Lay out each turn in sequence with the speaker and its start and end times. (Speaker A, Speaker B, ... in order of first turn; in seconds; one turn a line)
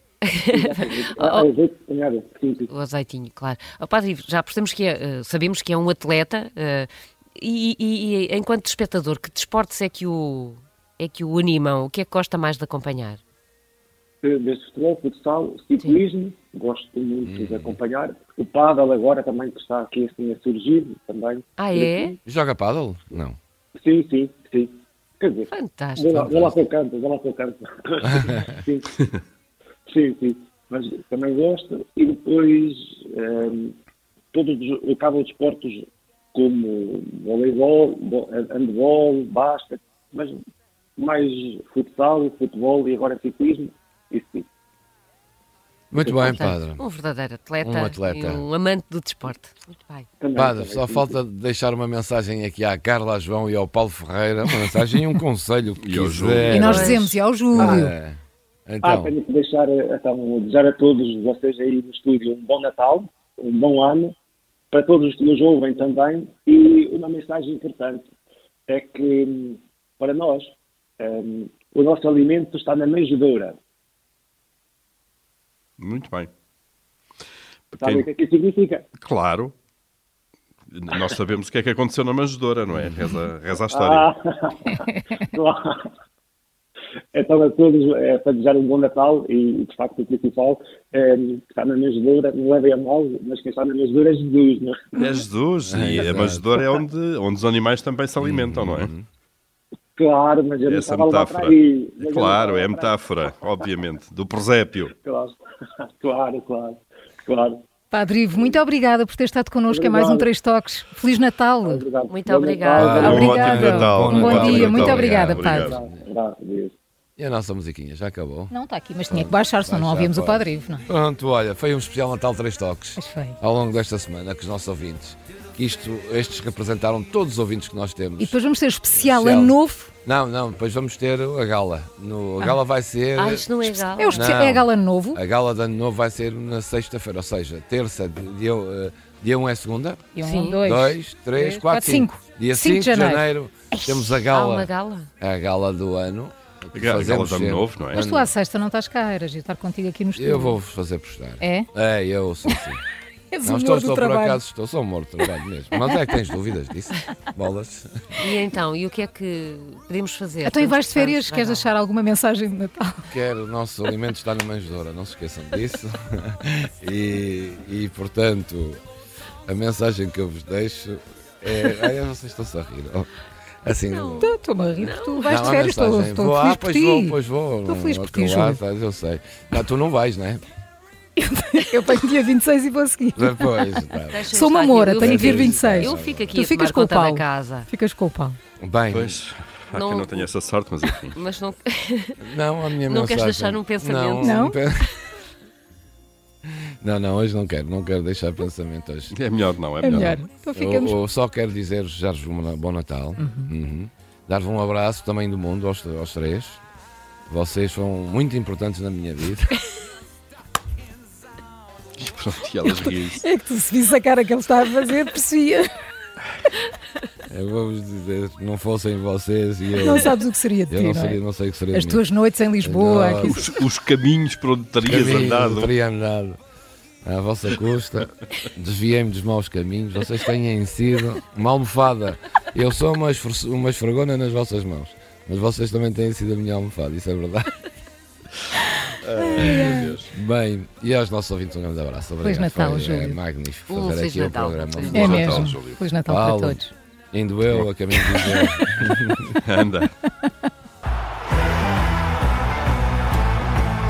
Speaker A: 0.2-1.5
Speaker B: 0.5-2.7
Speaker A: 2.7-13.2
Speaker B: 14.2-22.2
Speaker C: 17.2-17.8
Speaker A: 21.6-22.2
Speaker C: 22.2-23.4
Speaker B: 23.8-28.9
Speaker A: 25.5-26.3
Speaker B: 29.9-33.7
Speaker B: 34.3-40.4
Speaker B: 41.0-44.5
Speaker C: 45.9-46.8
Speaker B: 46.0-46.5
Speaker A: 46.4-50.1
Speaker C: 47.6-48.5
Speaker B: 50.2-51.2
Speaker C: 50.3-59.1
Speaker D: 55.8-57.0
Speaker E: 56.5-57.9
Speaker A: 56.6-57.0
Speaker B: 57.5-57.8
Speaker B: 58.8-64.1
Speaker B: 64.7-68.1
Speaker B: 68.7-73.6
Speaker D: 75.8-76.3
Speaker D: 77.7-78.1
Speaker B: 77.8-78.8
Speaker D: 79.0-79.5
Speaker D: 80.7-84.1
Speaker B: 83.6-85.8
Speaker B: 87.1-95.0
Speaker D: 94.9-98.9
Speaker C: 95.6-96.5
Speaker C: 98.2-99.0
Speaker B: 100.0-103.7
Speaker D: 100.6-104.9
Speaker B: 104.9-107.6
Speaker E: 107.9-111.8
Speaker B: 109.7-110.3
Speaker B: 111.6-113.5
Speaker A: 112.1-113.4
Speaker C: 112.8-116.0
Speaker D: 112.8-115.8
Speaker E: 112.9-115.7
Speaker B: 115.4-116.7
Speaker C: 117.2-118.5
Speaker E: 118.5-120.9
Speaker C: 119.1-128.4
Speaker E: 123.0-123.4
Speaker E: 128.2-129.9
Speaker C: 128.9-148.3
Speaker A: 133.2-134.3
Speaker E: 134.0-135.2
Speaker E: 140.1-143.3
Speaker A: 140.2-140.6
Speaker A: 144.3-145.1
Speaker D: 146.7-148.0
Speaker E: 147.9-150.6
Speaker C: 150.2-152.8
Speaker E: 151.4-151.7
Speaker E: 153.3-154.4
Speaker C: 153.4-158.0
Speaker A: 158.2-161.7
Speaker E: 160.4-163.1
Speaker C: 163.1-168.8
Speaker C: 169.5-173.1
Speaker C: 173.6-174.3
Speaker A: 173.9-175.7
Speaker E: 174.2-178.6
Speaker C: 175.2-180.4
Speaker E: 181.2-188.4
Speaker C: 183.2-184.3
Speaker A: 184.1-187.7
Speaker C: 185.0-186.4
Speaker C: 188.6-189.2
Speaker D: 188.9-191.2
Speaker A: 189.7-190.3
Speaker A: 191.1-192.2
Speaker C: 192.2-194.9
Speaker A: 192.9-194.6
Speaker E: 194.2-194.6
Speaker C: 196.4-199.1
Speaker D: 199.1-200.2
Speaker E: 199.8-201.0
Speaker C: 199.9-206.6
Speaker E: 203.2-203.5
Speaker C: 207.3-209.6
Speaker D: 212.0-213.2
Speaker E: 212.6-215.7
Speaker C: 217.3-220.2
Speaker E: 219.7-221.2
Speaker C: 220.7-222.0
Speaker E: 221.7-223.5
Speaker C: 222.6-223.4
Speaker D: 223.2-225.7
Speaker C: 224.8-226.4
Speaker C: 227.0-237.6
Speaker D: 239.0-240.1
Speaker E: 239.2-239.9
Speaker C: 240.1-245.5
Speaker E: 242.2-243.2
Speaker A: 243.7-245.2
Speaker D: 244.9-245.8
Speaker E: 244.9-246.7
Speaker C: 246.1-246.6
Speaker C: 247.1-249.4
Speaker D: 249.4-249.9